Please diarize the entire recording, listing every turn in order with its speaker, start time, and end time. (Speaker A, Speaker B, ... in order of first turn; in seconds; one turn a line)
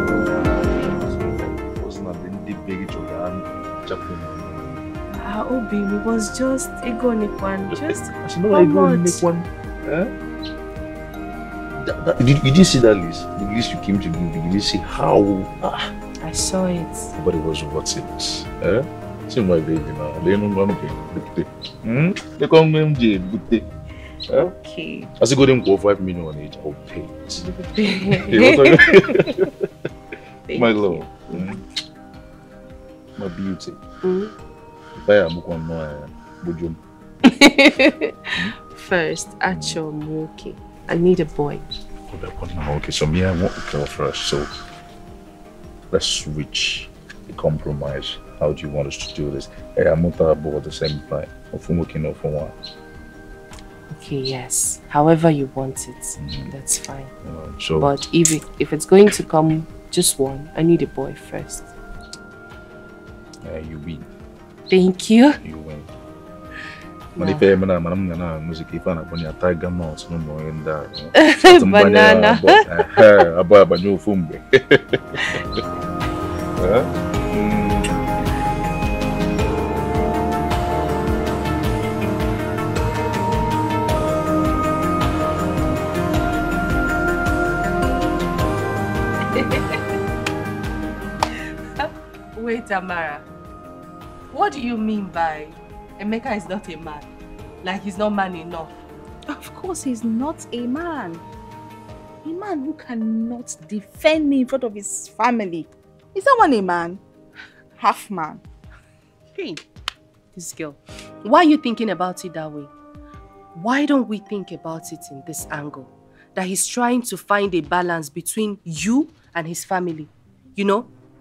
Speaker A: 0.7-4.8
Speaker B: 5.1-9.2
Speaker A: 7.7-10.1
Speaker A: 11.8-15.9
Speaker B: 16.2-17.1
Speaker A: 17.2-23.7
Speaker B: 24.4-25.1
Speaker A: 25.2-27.5
Speaker B: 27.4-29.0
Speaker A: 28.1-29.6
Speaker B: 30.5-31.4
Speaker A: 30.5-31.6
Speaker A: 33.2-33.8
Speaker B: 34.0-34.3
Speaker A: 35.0-36.8
Speaker B: 37.2-41.6
Speaker A: 39.5-39.8
Speaker A: 42.1-44.5
Speaker A: 45.9-52.5
Speaker B: 53.9-57.1
Speaker A: 56.2-56.5
Speaker A: 57.2-57.9
Speaker B: 57.8-61.7
Speaker A: 63.4-64.1
Speaker B: 64.7-65.4
Speaker A: 65.4-65.9
Speaker B: 67.2-67.5
Speaker A: 67.2-75.6
Speaker B: 71.2-73.0
Speaker A: 76.6-78.0
Speaker B: 89.3-89.8
Speaker B: 91.8-93.2
Speaker B: 94.3-97.1
Speaker B: 97.6-98.7
Speaker C: 99.3-101.2
Speaker C: 102.2-107.0
Speaker C: 107.8-108.4
Speaker B: 109.4-109.6
Speaker B: 110.3-112.7
Speaker B: 113.5-120.9